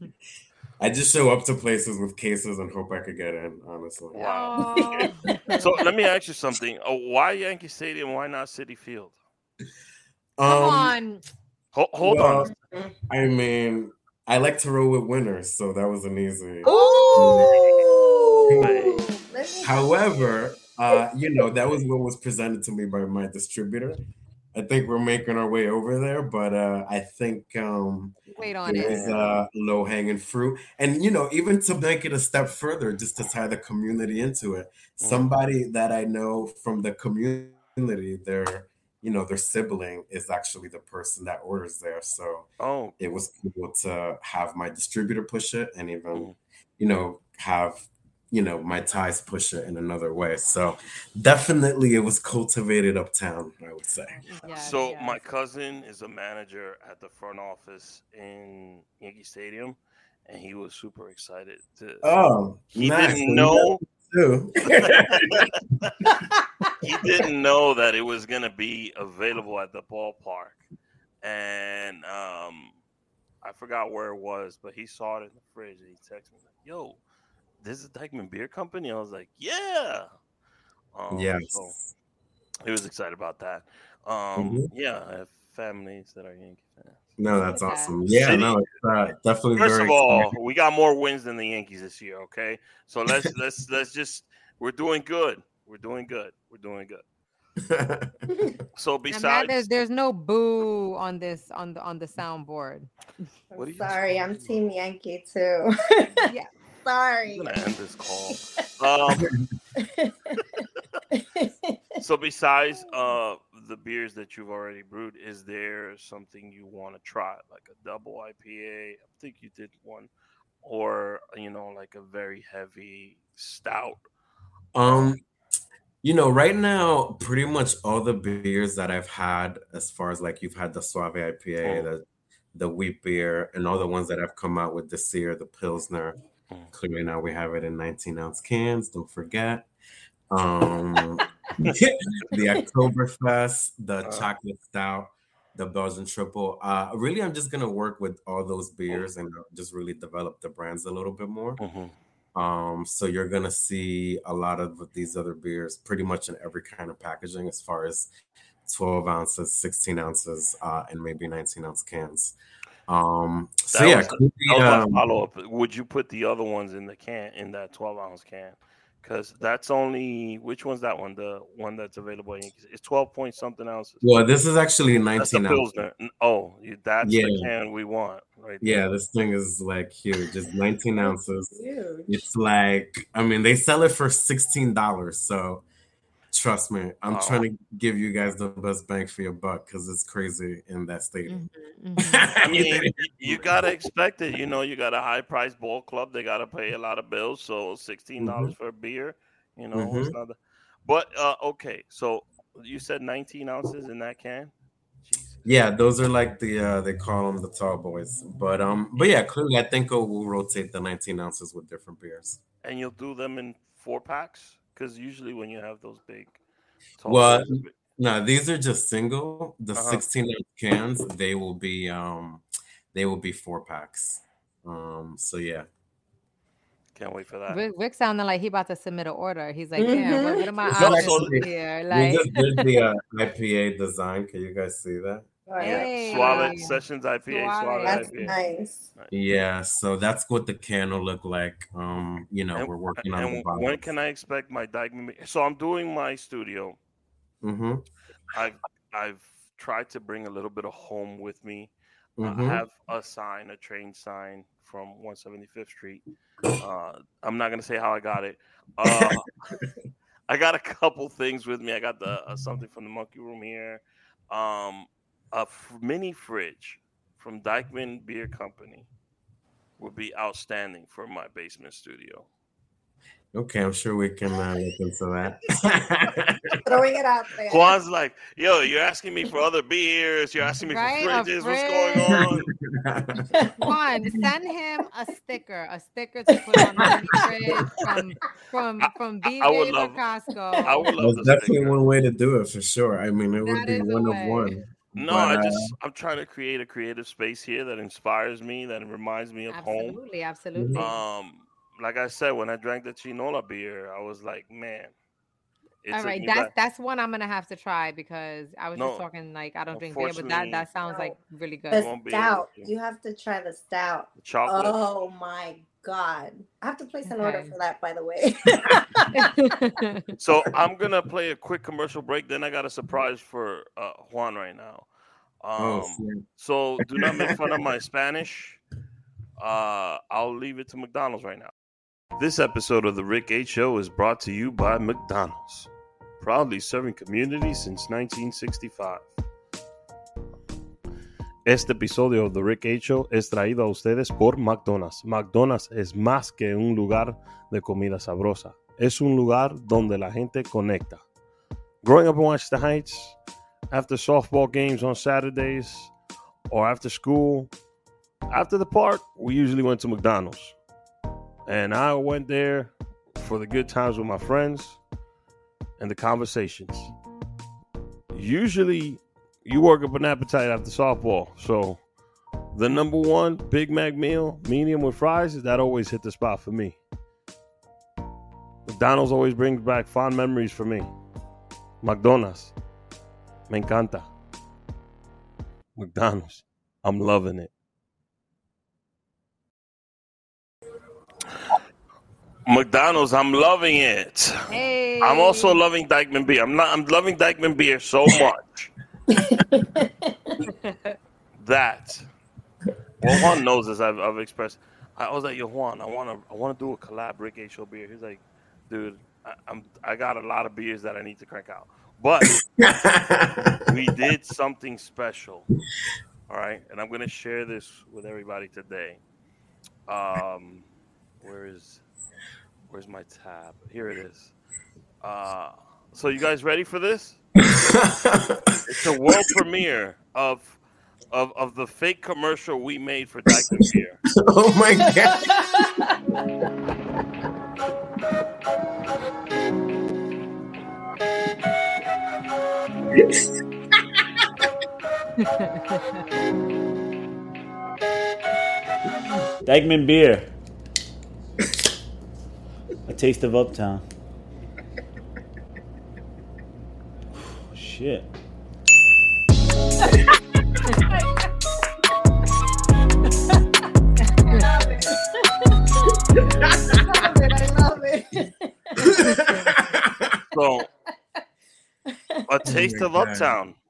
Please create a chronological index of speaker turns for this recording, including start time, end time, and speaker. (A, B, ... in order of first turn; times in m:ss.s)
0:00.8-0:04.2 A
0:04.1-0:05.6 B
0:04.1-0:09.2 C
0:04.7-0:05.7 D
0:10.4-0:11.0 A
0:10.4-0:11.2 B
0:11.7-0:12.5 C
0:12.0-0:12.5 A
0:13.1-0:17.5 A
0:16.6-0:20.0 D
0:16.6-0:18.6 B
0:18.5-0:18.8 A
0:18.6-0:19.1 C
0:19.6-0:24.0 A
0:24.5-0:42.5 A
0:28.4-0:29.1 B
0:28.7-0:29.4 C
0:35.0-0:35.2 C
0:42.6-0:43.0 C
0:43.0-0:54.2 A
0:54.3-0:55.2 B
0:54.6-1:03.8 C
1:02.0-1:05.5 A
1:04.7-1:05.9 C
1:06.8-1:10.6 C
1:11.2-1:12.8 C
1:13.4-1:17.0 C
1:17.6-1:20.1 C
1:20.9-1:21.8 C
1:21.1-1:21.7 A
1:22.6-1:27.1 C
1:24.4-1:24.7 A
1:27.2-1:30.3 A
1:27.4-1:28.0 B
1:28.1-1:28.6 C
1:29.6-1:37.0 C
1:37.6-1:38.1 A
1:38.3-1:38.6 D
1:38.8-1:39.7 C
1:39.1-1:42.9 B
1:43.5-1:46.3 D
1:43.6-1:44.6 C
1:46.8-1:47.6 D
1:47.3-1:49.3 C
1:49.1-1:49.4 A
1:49.8-1:52.0 D
1:52.0-2:00.1 C
2:00.6-2:04.0 C
2:04.7-2:05.2 A
2:06.0-2:16.2 A
2:16.7-2:19.7 A
2:20.3-2:31.6 A
2:31.6-2:31.9 C
2:32.3-2:38.1 A
2:38.6-2:42.4 A
2:42.9-2:45.0 A
2:43.7-2:54.1 C
2:54.0-2:55.6 A
2:55.2-2:58.8 C
2:57.0-2:57.5 A
2:58.6-3:01.6 A
3:01.0-3:02.2 D
3:02.1-3:05.6 A
3:06.3-3:11.4 A
3:07.1-3:07.4 C
3:11.3-3:12.3 B
3:12.1-3:13.5 A
3:12.4-3:24.5 C
3:18.2-3:18.5 A
3:19.7-3:20.1 A
3:25.0-3:25.4 C
3:25.4-3:32.4 A
3:32.6-3:36.4 C
3:37.0-3:37.7 C
3:37.0-3:45.7 A
3:39.7-3:40.0 C
3:47.0-3:47.6 C
3:47.5-3:52.6 B
3:49.8-3:50.9 D
3:50.7-3:55.8 A
3:50.7-3:51.4 C
3:55.5-3:56.6 D
3:55.6-3:58.4 B
3:55.7-3:58.3 C
3:57.8-3:58.8 D
3:59.1-4:03.9 A
4:02.5-4:06.8 C
4:07.4-4:07.8 A
4:08.3-4:19.6 C
4:12.2-4:12.6 A
4:18.8-4:19.7 A
4:20.3-4:28.9 C
4:29.8-4:32.3 C
4:33.3-4:36.6 A
4:36.6-4:37.8 D
4:37.5-4:42.5 C
4:40.7-4:42.1 B
4:42.1-4:43.3 A
4:43.3-4:43.6 D
4:43.6-4:50.9 B
4:46.5-4:46.9 D
4:48.8-4:50.0 C
4:50.5-4:50.8 D
4:50.6-4:51.8 C
4:51.0-4:55.7 A
4:53.4-4:54.6 B
4:55.0-5:00.0 C
4:59.5-5:01.0 B
5:00.5-5:00.8 A
5:00.8-5:04.9 C
5:05.8-5:06.5 C
5:05.9-5:11.9 B
5:08.8-5:09.0 C
5:09.7-5:10.7 C
5:10.8-5:11.1 D
5:11.7-5:19.5 D
5:11.7-5:12.7 C
5:14.2-5:14.8 C
5:17.1-5:17.5 B
5:19.1-5:20.1 B
5:20.2-5:24.9 C
5:25.4-5:28.6 C
5:25.6-5:26.2 A
5:27.0-5:27.3 A
5:29.4-5:31.5 C
5:32.2-5:35.7 C
5:36.2-5:39.1 C
5:41.4-5:51.0 C
5:51.8-5:53.2 C
5:53.7-5:55.9 C
5:56.5-5:57.5 C
5:58.3-6:00.6 C
6:01.4-6:04.8 C
6:05.8-6:06.9 C
6:08.1-6:11.8 C
6:12.5-6:16.8 C
6:18.7-6:20.9 C
6:21.8-6:22.5 C
6:23.5-6:24.1 C
6:25.8-6:27.5 C
6:32.4-6:34.5 C
6:34.5-6:35.6 B
6:35.0-6:38.7 C
6:39.1-6:40.4 D
6:40.5-6:41.0 B
6:41.4-6:42.1 C
6:43.0-6:52.4 C
6:52.2-6:53.6 A
6:53.6-6:55.5 C
6:56.3-6:59.0 C
6:59.9-7:00.6 C
7:01.2-7:01.8 C
7:02.7-7:04.3 C
7:05.0-7:07.2 C
7:07.4-7:08.7 A
7:08.6-7:10.6 C
7:11.1-7:14.0 C
7:13.3-7:15.6 A
7:15.0-7:16.0 D
7:23.0-7:23.2 A
7:25.2-7:26.0 B
7:29.4-7:30.3 E
7:32.9-7:33.8 E
7:37.5-7:38.1 E
7:40.8-7:41.3 D
7:44.3-7:49.6 D
7:46.4-7:46.8 A
7:48.8-7:50.2 A
7:50.3-7:50.7 C
7:51.9-7:52.2 D
7:52.3-7:53.6 C
7:52.5-7:53.3 A